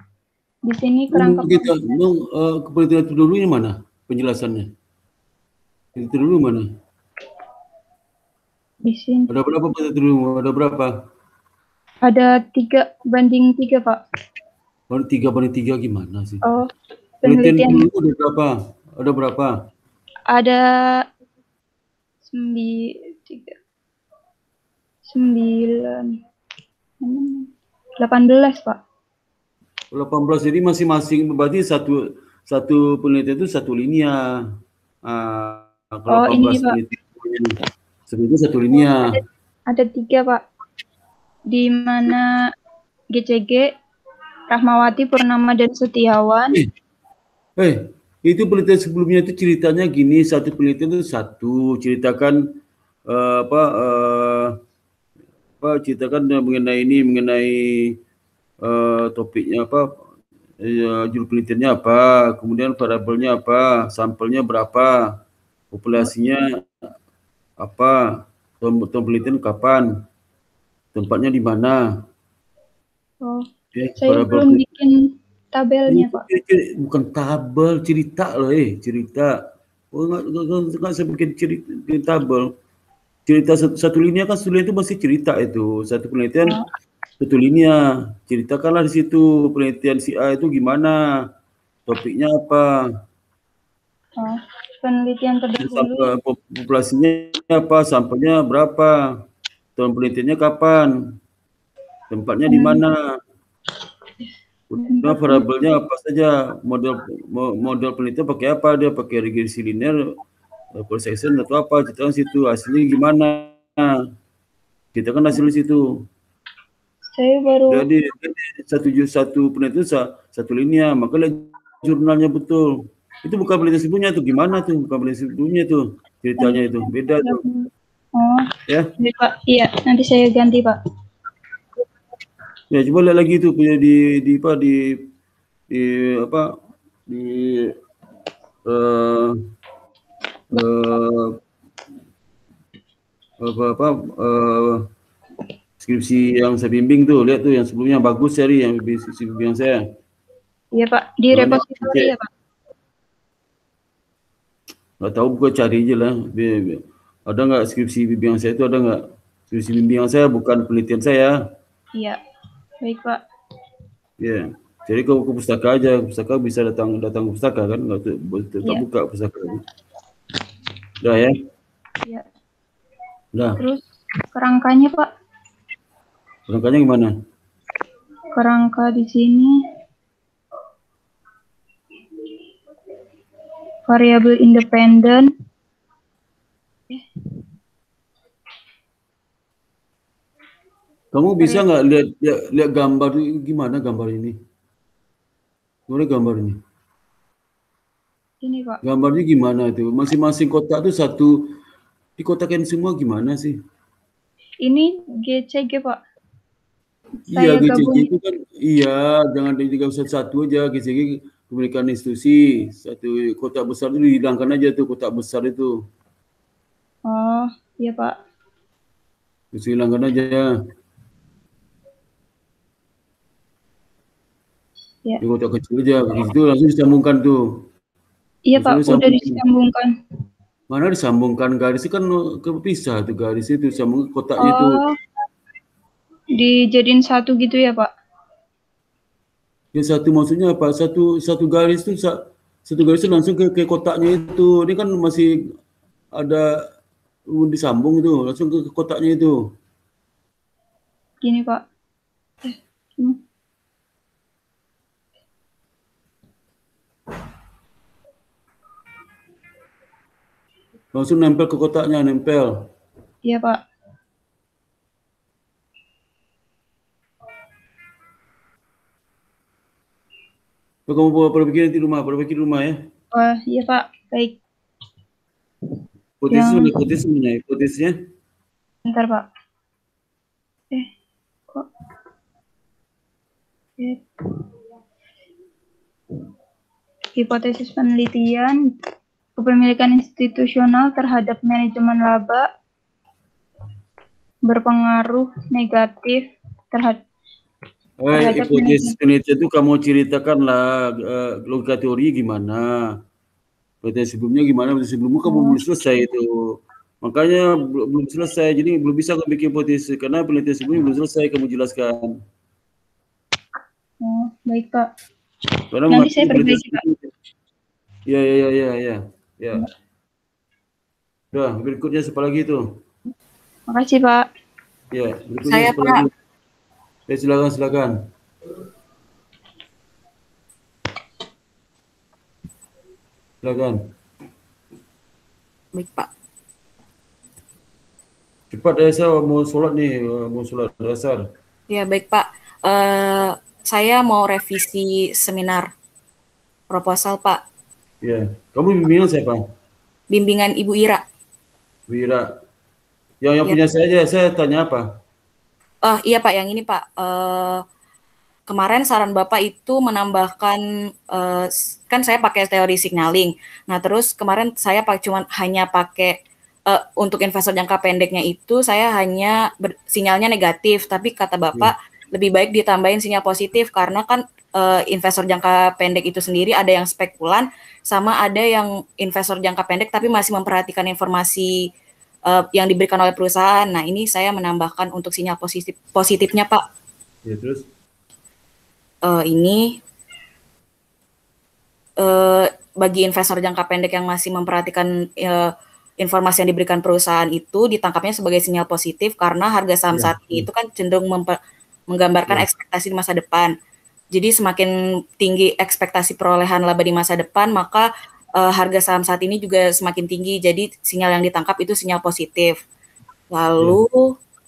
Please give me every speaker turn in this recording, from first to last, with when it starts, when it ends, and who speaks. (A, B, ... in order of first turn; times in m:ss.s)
0:00.7-0:01.8 A
0:01.1-0:04.6 B
0:06.0-0:06.6 B
0:08.8-0:09.3 A
0:09.3-0:10.9 B
0:12.0-0:14.0 A
0:14.9-0:16.4 B
0:17.2-0:17.9 A
0:17.2-0:19.5 B
0:20.3-0:21.0 A
0:22.3-0:23.6 A
0:25.1-0:26.2 A
0:27.0-0:28.8 A
0:29.9-0:34.2 B
0:35.1-0:37.5 B
0:36.1-0:36.8 A
0:38.1-0:39.2 B
0:39.7-0:40.4 A
0:41.5-0:42.2 A
0:43.1-0:43.7 A
0:44.5-0:46.6 A
0:47.6-0:52.4 B
0:53.1-0:54.5 B
0:55.6-0:57.9 B
0:58.6-0:59.9 B
1:00.6-1:05.1 B
1:05.7-1:06.6 B
1:07.6-1:08.0 B
1:08.6-1:09.9 B
1:10.9-1:11.8 B
1:13.8-1:14.6 B
1:14.0-1:15.0 A
1:15.5-1:16.2 A
1:15.9-1:19.3 B
1:19.9-1:22.5 B
1:23.2-1:26.6 B
1:27.2-1:31.0 B
1:31.9-1:32.6 B
1:34.2-1:36.1 A
1:35.6-1:38.9 B
1:39.8-1:40.9 B
1:42.1-1:43.1 B
1:42.5-1:42.8 A
1:44.7-1:50.0 B
1:44.9-1:45.4 A
1:50.8-1:53.8 B
1:54.9-1:55.8 B
1:57.1-1:57.9 A
1:57.7-2:02.7 B
2:03.2-2:07.4 B
2:06.4-2:08.5 A
2:09.0-2:10.7 A
2:12.7-2:15.0 B
2:15.7-2:16.5 B
2:17.1-2:17.7 B
2:18.6-2:19.3 B
2:20.5-2:21.4 B
2:23.4-2:24.8 B
2:25.8-2:29.8 B
2:30.8-2:32.3 A
2:31.3-2:32.1 B
2:35.0-2:36.8 B
2:37.3-2:39.0 B
2:39.5-2:41.4 B
2:42.8-2:43.2 A
2:44.2-2:49.6 B
2:51.0-2:51.3 B
2:53.3-2:53.6 B
2:53.6-2:55.1 A
2:56.5-2:57.1 B
2:58.3-2:59.6 A
3:03.9-3:05.3 A
3:11.1-3:14.4 B
3:15.9-3:16.6 B
3:18.4-3:18.8 A
3:18.8-3:21.5 B
3:22.2-3:23.6 B
3:24.6-3:26.0 A
3:27.3-3:35.7 B
3:27.3-3:28.1 A
3:37.1-3:38.2 A
3:39.5-3:40.5 B
3:45.2-3:47.6 B
3:48.5-3:49.9 A
3:48.5-3:49.4 B
3:50.7-3:54.8 B
3:54.4-3:54.9 A
3:56.4-3:57.9 A
3:59.7-4:05.3 B
4:06.1-4:06.4 B
4:07.3-4:09.4 B
4:11.2-4:11.6 A
4:12.4-4:13.2 A
4:20.9-4:22.7 B
4:23.2-4:23.6 A
4:30.9-4:32.8 B
4:33.1-4:34.4 A
4:36.2-4:38.0 B
4:36.3-4:36.7 A
4:38.9-4:39.3 A
4:47.2-4:48.6 A
4:49.4-4:52.4 A
4:54.5-4:57.0 A
4:58.0-5:02.7 B
4:58.1-4:58.9 A
5:03.8-5:12.1 B
5:05.3-5:05.6 A
5:14.0-5:14.9 A
5:15.7-5:17.1 B
5:15.9-5:16.8 A
5:18.1-5:19.6 B
5:21.3-5:22.6 B
5:23.7-5:24.2 A
5:24.9-5:26.1 B
5:25.5-5:26.0 C
5:27.1-5:27.9 B
5:33.4-5:33.8 B
5:35.7-5:36.1 C
5:38.5-5:41.2 B
5:41.7-5:45.7 C
5:46.7-5:47.4 C
5:48.0-5:49.4 B
5:50.1-5:51.0 C
5:51.9-5:52.3 B
5:53.2-5:54.9 B
5:55.8-5:57.6 C
5:58.5-6:00.6 C
6:01.1-6:21.5 C
6:22.3-6:26.6 C
6:27.2-6:27.6 B
6:29.0-6:29.8 C
6:32.0-6:41.4 C
6:39.9-6:40.5 B
6:41.9-6:43.5 C
6:44.1-6:52.6 C
6:53.3-6:54.1 C